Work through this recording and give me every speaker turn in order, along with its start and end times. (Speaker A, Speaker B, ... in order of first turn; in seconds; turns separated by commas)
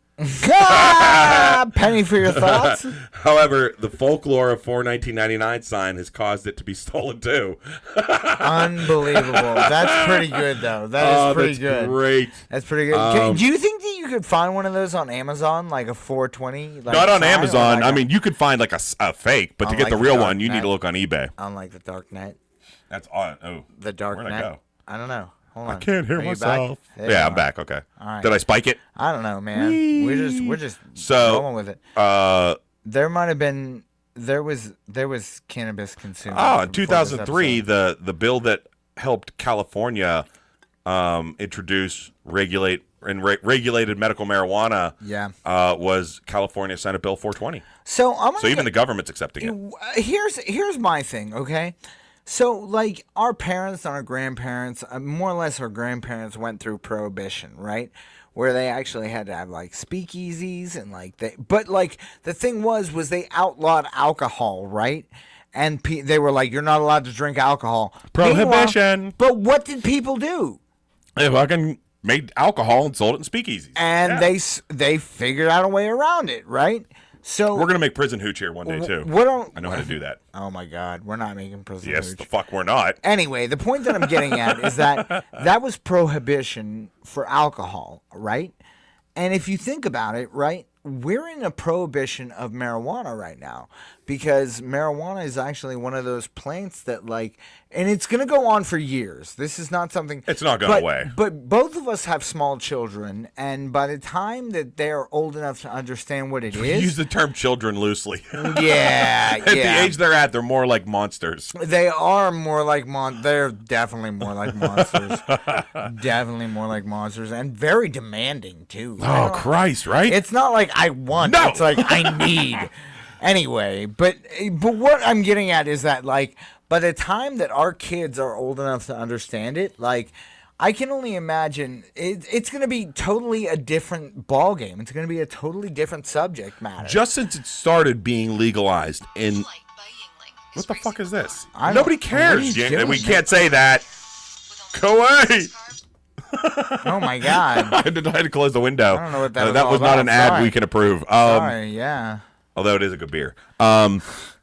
Speaker A: 0.2-3.0, Speaker B: 0.7-1.7, Speaker B: 2.2-10.4, Speaker A: 8.4-12.0, Speaker B: 11.0-13.4, Speaker A: 12.5-18.1, Speaker B: 16.9-21.3, Speaker A: 19.6-20.7, Speaker A: 21.4-22.4, Speaker B: 22.9-24.6, Speaker A: 23.8-27.4, Speaker B: 25.7-28.8, Speaker A: 28.0-28.3, Speaker A: 28.9-31.8, Speaker B: 29.5-32.6, Speaker A: 32.8-37.6, Speaker B: 36.3-40.2, Speaker B: 40.9-47.6, Speaker A: 45.0-45.3, Speaker A: 47.9-48.7, Speaker B: 48.4-49.5, Speaker A: 49.4-51.8, Speaker A: 52.3-70.6, Speaker B: 68.1-69.2, Speaker B: 71.2-74.3, Speaker A: 73.8-77.7, Speaker B: 77.5-80.2, Speaker A: 78.7-82.3, Speaker B: 81.8-83.0, Speaker A: 83.0-88.5, Speaker B: 83.9-85.3, Speaker A: 89.2-107.0, Speaker B: 100.3-101.1, Speaker B: 106.5-111.5, Speaker A: 108.3-110.0, Speaker A: 111.5-119.5, Speaker B: 114.5-115.9, Speaker B: 119.0-120.2, Speaker A: 120.1-137.0, Speaker B: 121.2-122.6, Speaker B: 136.8-139.5, Speaker C: 139.2-141.5, Speaker B: 140.6-143.9, Speaker A: 141.6-143.2, Speaker C: 144.5-145.8, Speaker B: 144.7-145.5, Speaker B: 146.3-151.6, Speaker A: 146.8-147.8, Speaker A: 148.9-150.5, Speaker A: 151.2-152.2, Speaker B: 152.6-154.1